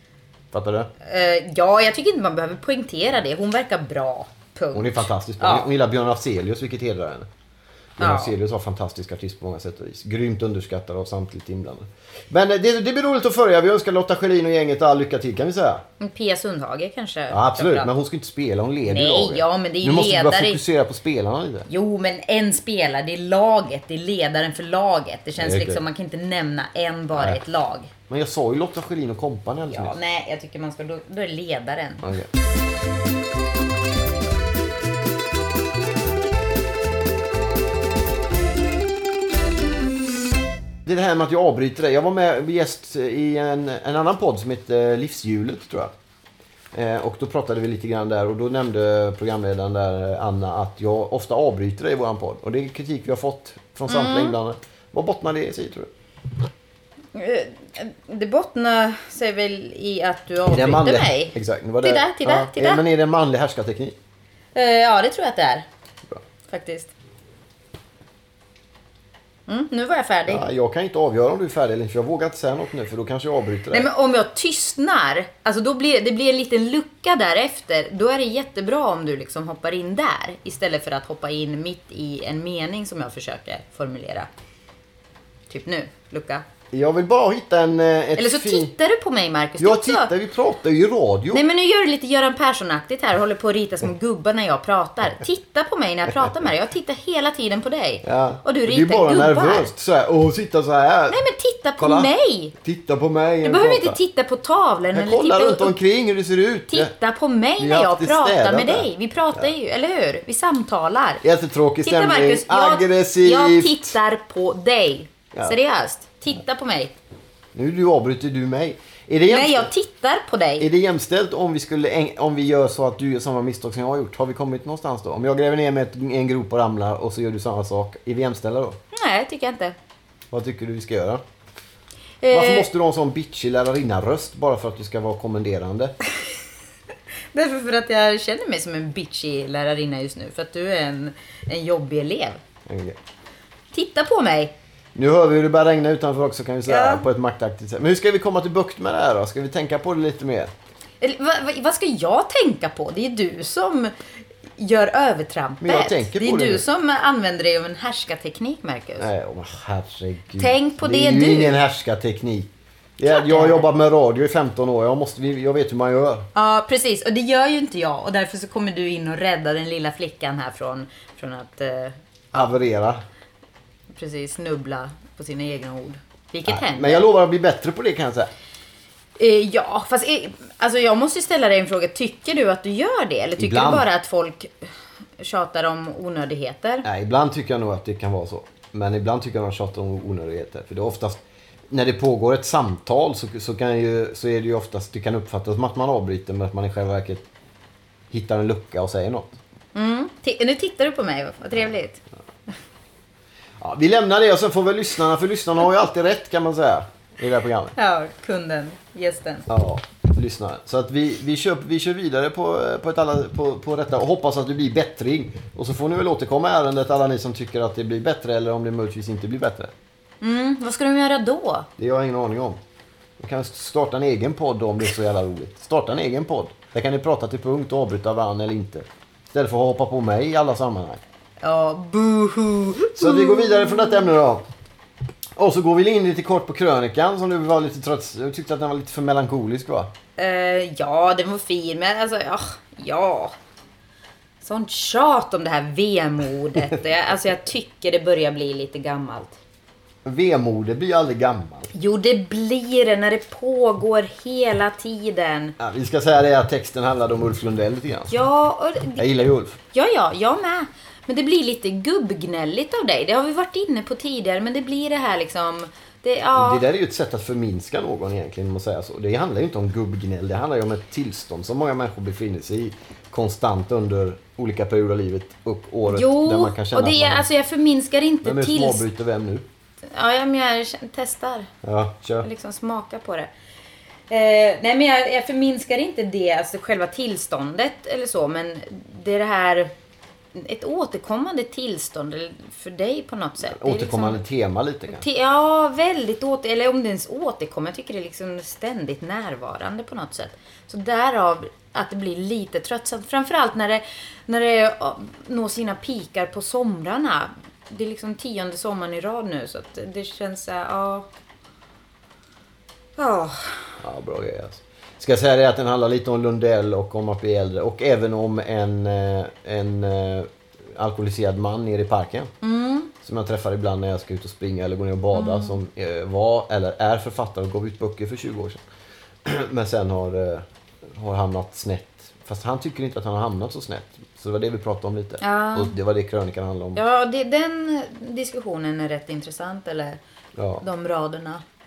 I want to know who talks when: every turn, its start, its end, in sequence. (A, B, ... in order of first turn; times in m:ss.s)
0:00.5-0:00.9 A
0:01.0-0:05.7 B
0:04.7-0:07.3 A
0:08.0-0:15.8 A
0:08.0-0:08.4 B
0:16.0-0:17.9 B
0:17.3-0:21.7 A
0:18.9-0:20.6 B
0:21.7-0:27.9 B
0:25.4-0:25.8 A
0:27.2-0:27.4 A
0:28.1-0:30.0 A
0:29.7-0:32.1 B
0:32.0-0:32.3 A
0:40.8-0:45.9 A
0:46.7-0:55.9 A
0:53.9-0:54.4 B
0:57.1-1:02.8 B
1:00.5-1:04.0 A
1:04.6-1:05.7 B
1:06.5-1:06.9 B
1:09.5-1:10.4 B
1:10.3-1:13.9 A
1:13.7-1:24.3 B
1:25.5-1:26.4 B
1:26.7-1:28.7 A
1:28.2-1:30.1 B
1:29.6-1:31.4 A
1:31.3-1:39.7 B
1:38.0-1:41.2 A
1:41.1-1:42.6 B
1:41.8-1:44.0 A
1:43.4-1:45.8 B
1:44.9-1:46.9 A
1:46.7-1:51.2 B
1:47.6-1:49.5 A
1:51.2-1:54.0 A
1:51.8-1:56.9 B
1:57.5-1:59.7 A
1:59.3-2:00.7 B
2:00.6-2:08.8 A
2:08.9-2:09.8 B
2:10.3-2:11.2 A
2:12.2-2:12.7 B
2:12.3-2:16.0 A
2:17.3-2:22.4 B
2:22.7-2:23.0 A
2:23.7-2:24.5 B
2:25.0-2:30.5 A
2:26.7-2:27.1 B
2:31.0-2:33.9 B
2:34.6-2:39.1 B
2:35.6-2:36.6 A
2:39.0-2:46.3 A
2:40.4-2:41.6 B
2:43.0-2:43.7 B
2:46.4-2:52.5 B
2:52.3-2:53.0 A
2:53.9-2:57.1 B
2:56.5-2:58.3 A
2:59.2-3:04.5 B
3:03.4-3:03.9 A
3:05.2-3:06.9 B
3:06.8-3:17.3 A
3:18.1-3:19.4 A
3:19.8-3:22.0 B
3:23.6-3:27.8 A
3:27.8-3:29.5 B
3:29.5-3:39.7 A
3:40.2-3:41.7 B
3:41.8-3:42.6 A
3:43.2-3:51.0 A
3:51.4-3:54.1 B
3:53.0-3:54.5 A
3:55.4-3:59.9 A
4:00.2-4:03.3 B
4:04.4-4:09.4 B
4:10.0-4:11.7 A
4:11.7-4:15.6 B
4:15.6-4:18.2 A
4:18.1-4:19.0 B
4:19.0-4:19.6 A
4:19.7-4:26.6 B
4:26.3-4:37.3 A
4:35.9-4:38.8 B
4:38.2-4:39.5 A
4:39.9-4:41.5 B
4:41.6-4:42.3 A
4:42.2-4:43.3 B
4:44.1-4:49.7 B
4:50.4-4:54.2 B
4:53.5-4:55.0 A
4:54.9-5:11.1 B
5:13.0-5:13.8 B
5:13.8-5:22.3 A
5:22.4-5:22.9 B
5:23.0-5:28.6 A
5:25.1-5:25.6 B
5:29.2-5:36.8 A
5:35.2-5:35.8 B
5:36.8-5:40.0 B
5:40.4-5:40.6 A
5:40.6-5:41.4 B